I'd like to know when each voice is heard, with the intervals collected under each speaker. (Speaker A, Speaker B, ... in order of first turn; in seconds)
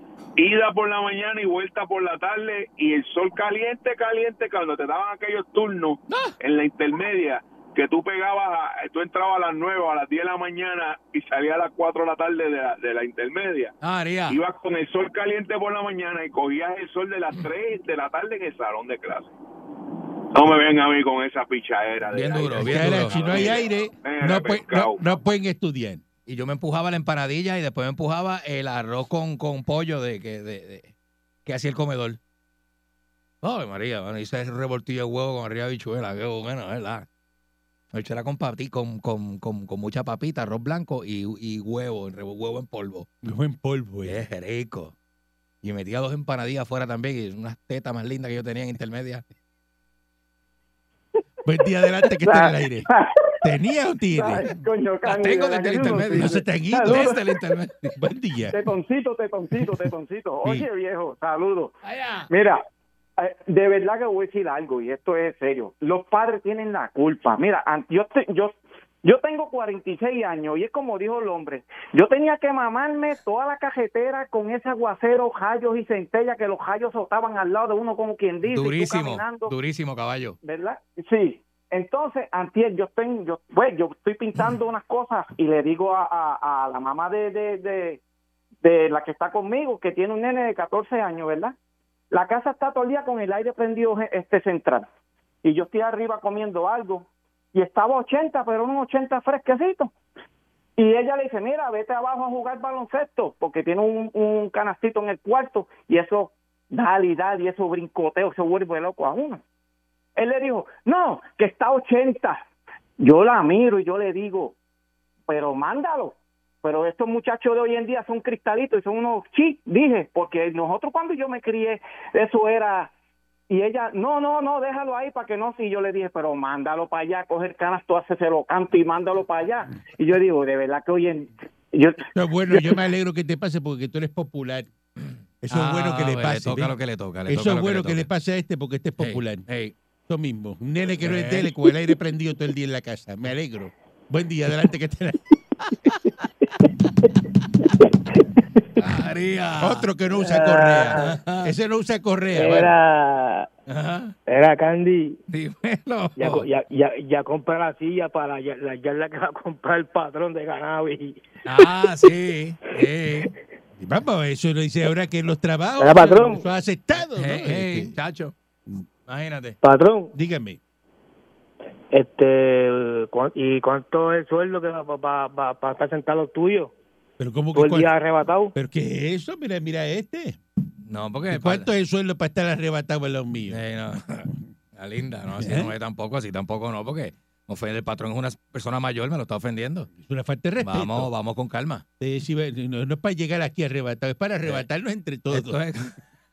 Speaker A: 0.4-13.8, 14.3-19.3, 20.3-25.0
Speaker B: 13.8-14.4, 22.1-23.6, 26.3-30.9, 31.4-32.2, 33.4-37.1, 37.9-43.1, 44.0-44.9, 45.6-49.2, 55.0-58.0, 61.8-62.3, 78.5-80.4, 135.0-138.1, 139.0-139.8, 141.0-141.5, 148.8-149.9, 150.9-151.5, 153.7-154.1, 155.3-156.5, 161.5-163.3, 167.1-168.3, 169.1-169.6, 180.8-181.7, 183.5-189.9, 190.6-191.8, 195.3-196.0
Speaker C: 22.6-26.0, 43.2-44.2, 51.5-52.9, 53.4-54.5, 55.8-57.1, 58.0-58.6, 132.1-134.7, 135.4-139.5, 140.1-145.4, 149.6-152.7, 163.8-167.9, 170.1-170.6, 177.2-177.9, 178.5-180.4, 181.3-183.6, 185.4-185.7, 190.0-191.1, 192.0-195.6
Speaker D: 52.2-53.3, 54.1-57.2, 58.5-61.8, 62.3-62.6, 63.2-79.5, 80.4-88.0, 88.6-91.5, 92.1-94.9, 95.4-99.9, 100.8-109.4, 110.2-112.4, 113.0-114.5, 115.3-122.9, 123.5-132.8
Speaker E: 150.2-151.1, 152.3-153.5, 154.3-155.2, 156.2-161.7, 165.8-166.4, 169.6-170.1, 171.9-176.7, 177.5-178.5